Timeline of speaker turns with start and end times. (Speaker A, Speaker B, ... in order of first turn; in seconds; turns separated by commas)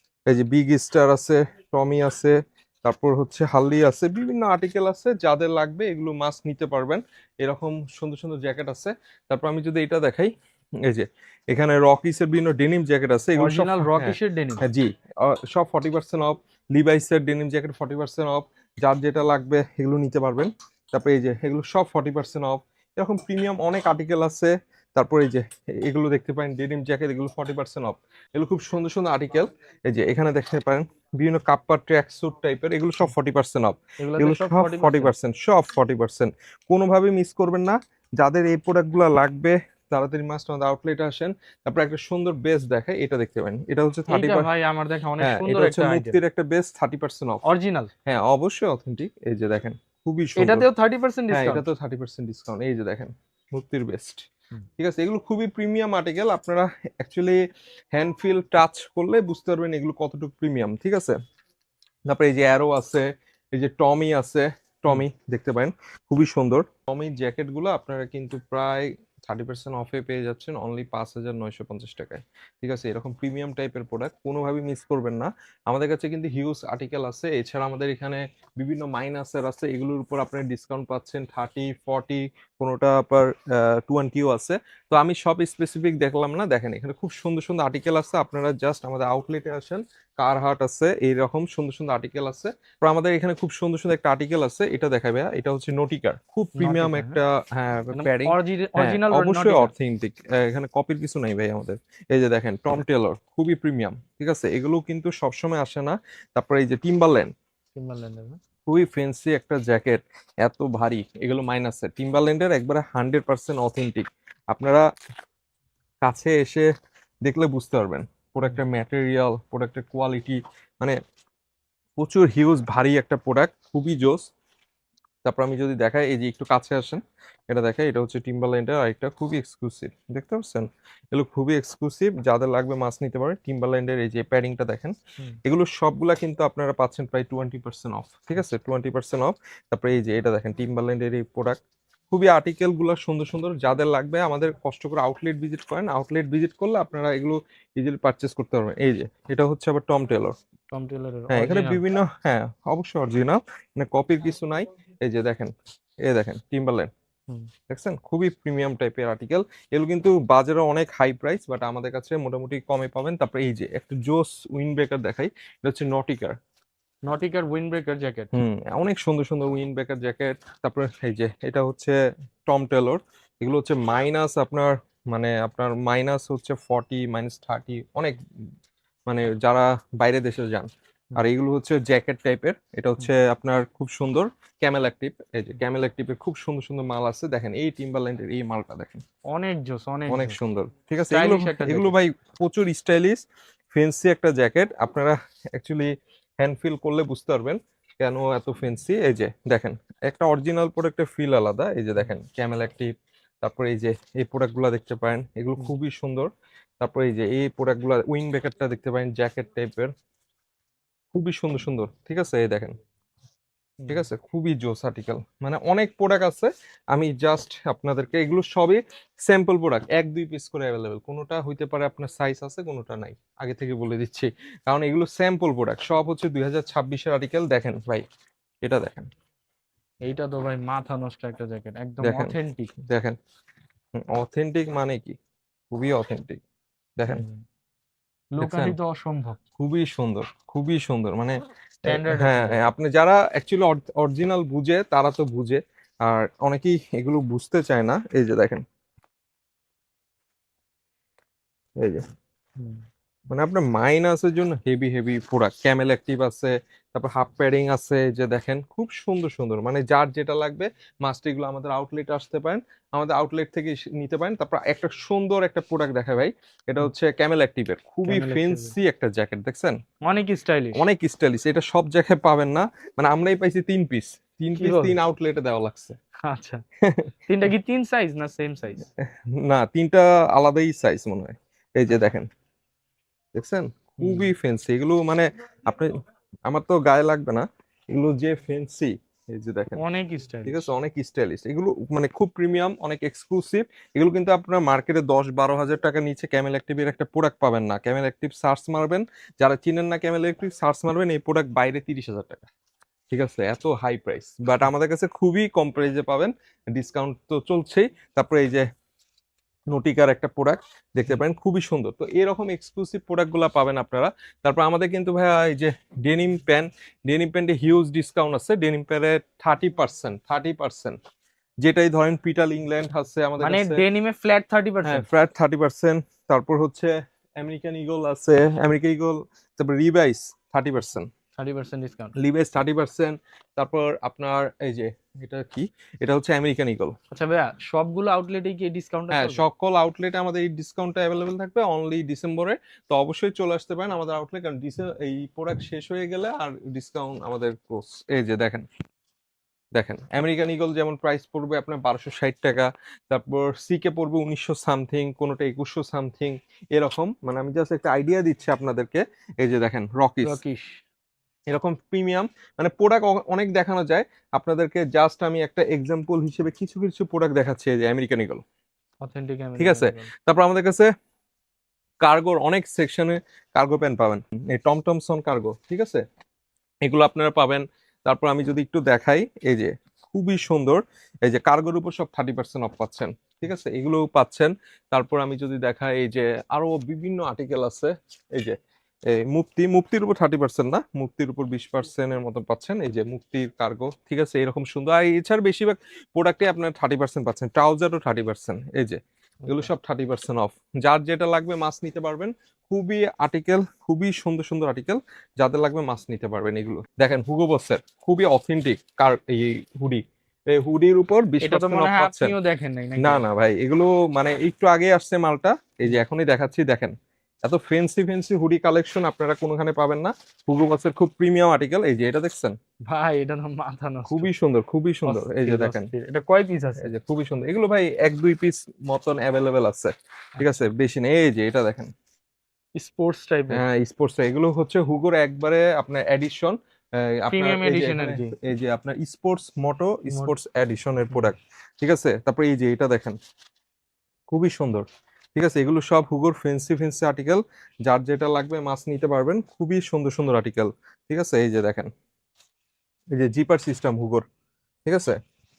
Speaker A: 0.3-10.3, Speaker A: 10.9-44.5, Speaker B: 13.4-14.6, Speaker B: 34.0-35.1, Speaker B: 44.1-46.2, Speaker A: 45.2-47.4, Speaker B: 47.4-47.9, Speaker A: 48.1-50.7, Speaker B: 50.4-51.7, Speaker A: 51.3-54.2, Speaker A: 54.8-57.4, Speaker A: 57.9-61.2, Speaker A: 62.1-107.3, Speaker B: 96.6-97.2, Speaker B: 97.9-99.7, Speaker B: 107.8-108.4, Speaker A: 108.7-114.8, Speaker A: 116.0-116.7, Speaker A: 117.2-121.0, Speaker A: 122.0-124.2, Speaker A: 125.2-141.6, Speaker A: 142.1-150.3, Speaker B: 150.7-151.8, Speaker A: 151.3-155.5, Speaker A: 156.1-156.9, Speaker A: 157.7-166.4, Speaker B: 167.1-168.3, Speaker A: 168.3-172.0, Speaker A: 172.5-178.2, Speaker A: 179.1-189.0, Speaker B: 189.3-190.4, Speaker A: 190.1-193.2, Speaker B: 191.1-191.9, Speaker A: 193.7-202.9, Speaker A: 203.4-206.3, Speaker A: 206.8-209.9, Speaker A: 211.1-212.7, Speaker B: 213.8-214.1, Speaker A: 213.9-228.1, Speaker A: 228.6-229.1, Speaker B: 230.1-232.7, Speaker A: 232.0-232.3, Speaker A: 232.9-233.2, Speaker A: 234.0-235.2, Speaker A: 235.7-236.4, Speaker A: 237.0-237.3, Speaker B: 237.1-237.4, Speaker B: 238.3-239.4, Speaker A: 238.4-238.8, Speaker A: 239.6-248.6, Speaker B: 241.8-242.7, Speaker A: 253.3-269.8, Speaker B: 268.1-268.7, Speaker B: 270.1-270.8, Speaker A: 270.8-276.0, Speaker B: 274.6-275.0, Speaker B: 276.3-276.6, Speaker A: 276.8-277.1, Speaker B: 277.3-278.8, Speaker A: 279.0-282.3, Speaker A: 283.4-285.9, Speaker B: 284.0-284.3, Speaker A: 286.5-289.8, Speaker B: 289.8-290.7, Speaker A: 290.5-302.5, Speaker A: 303.1-308.7, Speaker A: 309.7-321.0, Speaker A: 321.6-323.8, Speaker B: 323.4-325.1, Speaker A: 324.9-331.1, Speaker B: 331.4-332.1, Speaker A: 332.2-336.9, Speaker B: 337.1-339.4, Speaker A: 339.1-348.7, Speaker A: 349.8-360.4, Speaker B: 360.2-360.8, Speaker A: 361.5-368.4, Speaker B: 369.0-370.1, Speaker A: 369.6-370.9, Speaker A: 372.0-376.0, Speaker A: 376.9-388.6, Speaker A: 389.1-412.3, Speaker B: 399.4-399.7, Speaker B: 411.4-413.2, Speaker A: 413.0-422.6, Speaker B: 422.9-424.3, Speaker A: 424.1-425.9, Speaker B: 425.1-426.9, Speaker A: 426.8-431.9, Speaker B: 432.8-433.6, Speaker A: 433.5-443.2, Speaker B: 437.3-438.4, Speaker B: 440.1-440.4, Speaker A: 444.3-451.9, Speaker A: 453.1-454.2, Speaker A: 454.9-455.2